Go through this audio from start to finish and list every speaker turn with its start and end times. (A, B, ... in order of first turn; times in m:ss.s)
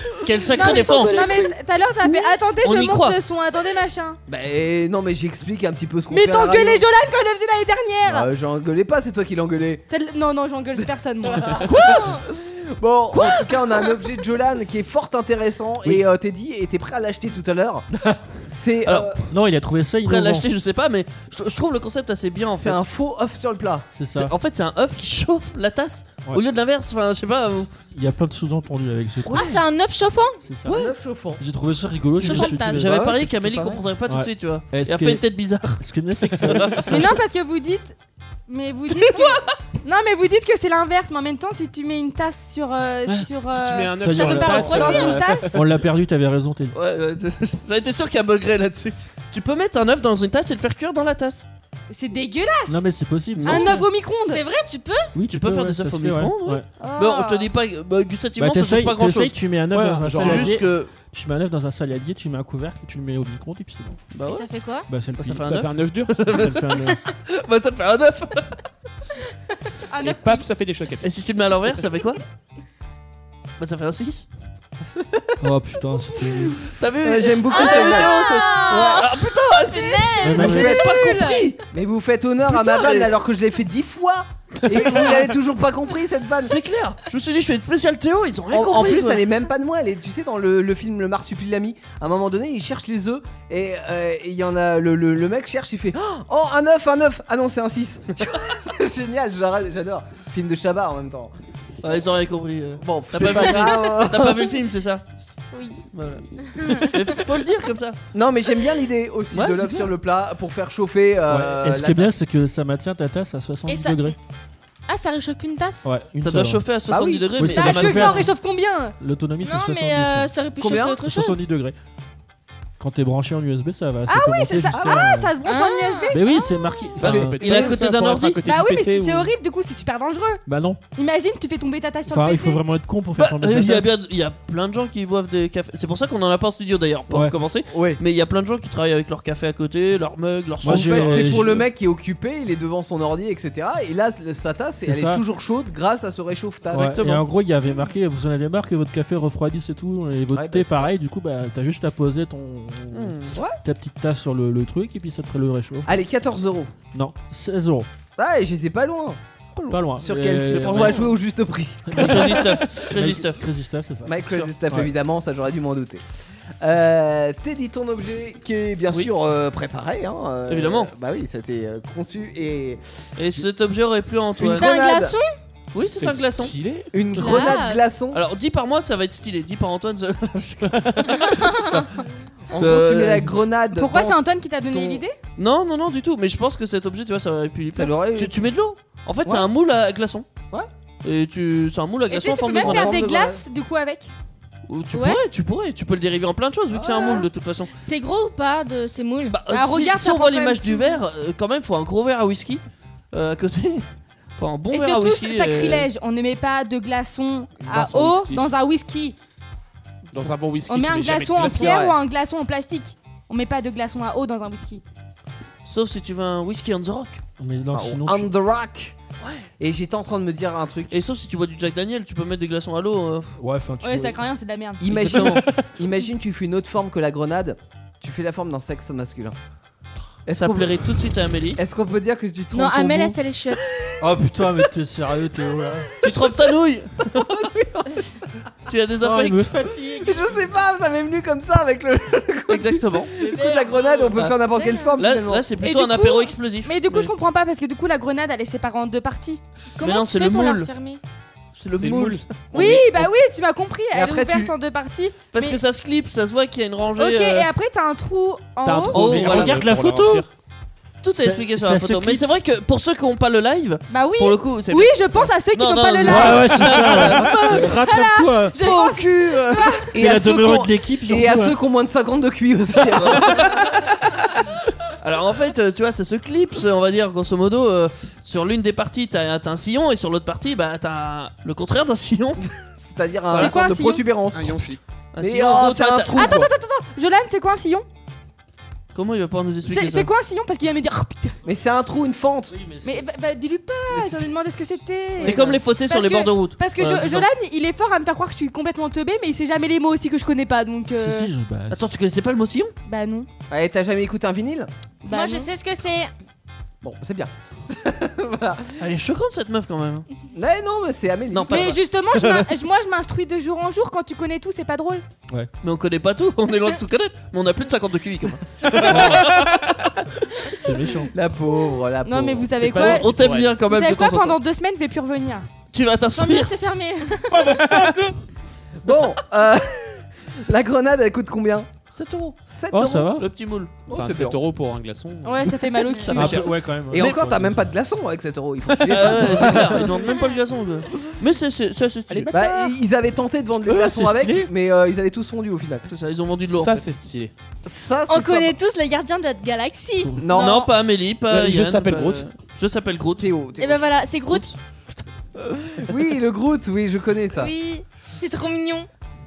0:00.2-0:01.3 A
0:00.5-0:01.5 B
0:00.5-0:04.2 C
0:02.0-0:02.3 B
0:02.6-0:03.2 A
0:04.3-0:06.8 D
0:06.1-0:08.3 C
0:08.0-0:09.8 D
0:09.9-0:12.0 C
0:11.2-0:19.2 D
0:11.7-0:12.0 A
0:18.8-0:19.2 A
0:19.3-0:20.4 E
0:20.0-0:22.8 A
0:22.4-0:23.9 D
0:23.9-0:24.3 E
0:24.1-0:27.7 A
0:27.9-0:29.6 E
0:29.3-0:30.4 B
0:30.4-0:33.1 E
0:30.6-0:31.4 D
0:32.2-0:32.8 B
0:32.3-0:36.8 A
0:32.6-0:33.8 D
0:34.1-0:37.2 E
0:36.9-0:37.9 C
0:38.5-0:45.5 C
0:43.4-0:45.6 F
0:44.0-0:45.0 E
0:44.1-0:45.5 B
0:45.5-0:46.7 E
0:46.7-0:51.4 A
0:51.9-0:52.8 C
0:52.7-0:53.8 E
0:53.4-0:53.8 A
0:53.4-0:54.4 C
0:53.8-0:55.1 B
0:55.1-0:56.6 E
0:55.3-0:59.4 A
0:56.8-0:57.5 C
0:58.4-1:04.0 E
0:59.7-1:00.6 F
1:00.0-1:00.9 A
1:04.1-1:04.4 A
1:04.2-1:04.9 B
1:04.9-1:05.6 E
1:05.2-1:08.6 A
1:05.3-1:06.3 F
1:06.2-1:07.0 E
1:09.9-1:10.4 C
1:10.0-1:11.1 F
1:11.0-1:12.2 A
1:13.6-1:14.3 A
1:14.9-1:15.4 D
1:15.4-1:16.7 E
1:16.6-1:21.6 A
1:17.0-1:19.2 D
1:17.5-1:18.9 B
1:17.8-1:18.9 C
1:19.7-1:20.3 B
1:19.7-1:21.4 C
1:20.2-1:20.8 E
1:20.4-1:20.9 D
1:21.0-1:21.2 B
1:21.7-1:26.6 D
1:22.5-1:23.2 A
1:26.4-1:29.2 A
1:28.5-1:41.3 D
1:41.8-1:45.0 A
1:42.8-1:44.6 D
1:45.5-1:45.8 B
1:45.9-1:48.0 A
1:46.6-1:46.9 B
1:48.1-1:52.1 D
1:49.3-1:49.9 A
1:51.3-1:54.2 E
1:53.7-1:54.1 B
1:54.9-1:55.9 B
1:55.8-1:56.6 E
1:56.2-1:58.3 A
1:56.9-1:57.3 D
1:57.4-1:58.3 E
1:57.6-1:59.0 C
1:59.0-2:00.3 E
1:59.4-2:01.4 B
2:00.6-2:01.1 D
2:01.1-2:01.8 E
2:02.8-2:05.3 E
2:04.1-2:06.8 C
2:04.7-2:05.1 D
2:05.4-2:07.0 B
2:06.1-2:07.6 E
2:07.0-2:09.3 F
2:07.0-2:08.4 A
2:07.5-2:07.7 D
2:08.4-2:10.4 C
2:10.4-2:10.8 E
2:10.9-2:12.6 C
2:12.1-2:13.9 E
2:13.2-2:21.4 A
2:17.1-2:17.4 E
2:17.7-2:18.0 D
2:20.6-2:21.7 E
2:20.6-2:27.0 D
2:24.8-2:25.2 E
2:26.7-2:27.2 A
2:26.7-2:36.0 E
2:30.3-2:30.9 D
2:32.9-2:33.3 A
2:35.8-2:36.7 D
2:36.9-2:37.9 E
2:38.2-2:42.5 D
2:39.7-2:41.2 E
2:40.5-2:41.1 A
2:41.9-2:44.1 E
2:41.9-2:43.4 A
2:44.0-2:46.0 D
2:46.6-2:52.8 D
2:50.5-2:50.9 A
2:53.2-2:54.7 A
2:54.4-2:55.2 D
2:54.4-2:55.3 B
2:55.7-2:56.5 A
2:55.8-2:57.0 F
2:56.9-2:58.2 D
2:57.1-2:57.9 B
2:57.2-2:57.5 A
2:58.1-3:01.9 A
3:00.7-3:01.1 F
3:01.4-3:01.8 B
3:02.5-3:05.0 D
3:02.5-3:03.3 A
3:03.7-3:05.1 C
3:05.4-3:10.2 A
3:07.7-3:08.4 D
3:09.2-3:09.5 D
3:11.0-3:13.0 A
3:12.1-3:14.1 C
3:12.5-3:13.4 D
3:14.7-3:17.7 A
3:14.9-3:15.2 B
3:16.7-3:17.2 D
3:17.8-3:19.4 B
3:19.3-3:22.6 A
3:19.5-3:21.0 C
3:23.1-3:25.9 A
3:24.7-3:29.2 C
3:27.6-3:28.5 F
3:30.1-3:31.8 F
3:30.7-3:34.8 C
3:31.5-3:32.0 D
3:35.6-3:37.2 A
3:37.4-3:38.3 E
3:37.7-3:39.0 D
3:39.2-3:39.4 A
3:39.6-3:40.9 D
3:40.9-3:43.3 A
3:43.4-3:44.2 E
3:43.8-3:44.8 C
3:44.8-3:49.4 D
3:44.9-3:45.3 E
3:50.2-3:50.9 D
3:50.3-3:51.6 A
3:51.6-3:53.8 D
3:52.5-3:53.7 B
3:54.0-3:55.9 E
3:56.0-3:57.3 A
3:56.1-3:56.4 D
3:57.1-3:58.1 D
3:58.7-3:59.5 A
3:59.0-4:00.3 E
3:59.9-4:05.5 D
4:02.5-4:03.1 A
4:03.4-4:05.0 B
4:05.0-4:07.1 A
4:05.6-4:09.4 C
4:09.8-4:11.0 B
4:09.8-4:10.7 A
4:11.5-4:12.8 A
4:11.7-4:13.0 F
4:12.5-4:15.6 C
4:13.9-4:14.5 D
4:15.3-4:17.5 A
4:17.0-4:19.0 C
4:18.6-4:20.3 F
4:18.9-4:19.7 A
4:18.9-4:20.3 E
4:21.0-4:27.7 A
4:21.1-4:22.3 E
4:23.9-4:26.8 C
4:26.0-4:28.6 E
4:27.5-4:29.9 C
4:28.6-4:29.8 A
4:29.9-4:33.9 D
4:29.9-4:31.5 E
4:32.9-4:33.6 A
4:35.0-4:42.5 A
4:42.8-4:46.5 D
4:43.3-4:44.0 C
4:44.3-4:44.8 F
4:45.1-4:46.4 A
4:46.1-4:47.8 C
4:48.9-4:50.1 A
4:49.6-4:51.4 C
4:51.4-4:52.5 D
4:52.5-4:53.0 E
4:52.8-5:01.3 C
4:53.9-4:54.3 D
4:55.2-4:57.3 A
4:55.2-4:55.6 D
5:00.9-5:01.8 E
5:01.7-5:02.7 A
5:02.8-5:03.3 C
5:03.5-5:04.7 D
5:05.0-5:05.5 C
5:05.1-5:06.1 B
5:06.8-5:08.8 D
5:08.8-5:10.0 A
5:10.3-5:11.8 D
5:11.3-5:12.4 A
5:11.5-5:15.0 C
5:15.6-5:19.5 A
5:18.8-5:19.3 E
5:20.6-5:21.1 E
5:21.1-5:23.0 D
5:22.0-5:23.1 C
5:22.6-5:23.6 F
5:22.7-5:24.4 A
5:23.6-5:25.5 C
5:25.7-5:26.5 A
5:26.2-5:27.6 B
5:27.3-5:28.1 F
5:28.8-5:31.7 D
5:31.9-5:32.4 A
5:32.5-5:33.2 D
5:32.7-5:33.2 E
5:33.2-5:33.8 A
5:33.9-5:34.4 D
5:33.9-5:35.5 F
5:35.2-5:36.4 C
5:35.8-5:36.3 B
5:36.1-5:37.2 A
5:36.1-5:37.7 E
5:36.9-5:40.0 D
5:38.7-5:39.5 F
5:38.8-5:42.3 A
5:40.0-5:40.4 B
5:42.3-5:45.9 D
5:43.6-5:44.5 E
5:45.9-5:46.8 A
5:46.4-5:47.3 F
5:47.6-5:48.6 D
5:48.1-5:50.7 B
5:50.2-5:50.7 D
5:50.3-5:53.3 A
5:51.3-5:52.3 F
5:53.2-5:53.8 D
5:53.6-5:54.5 B
5:55.5-5:57.5 D
5:57.4-5:58.9 B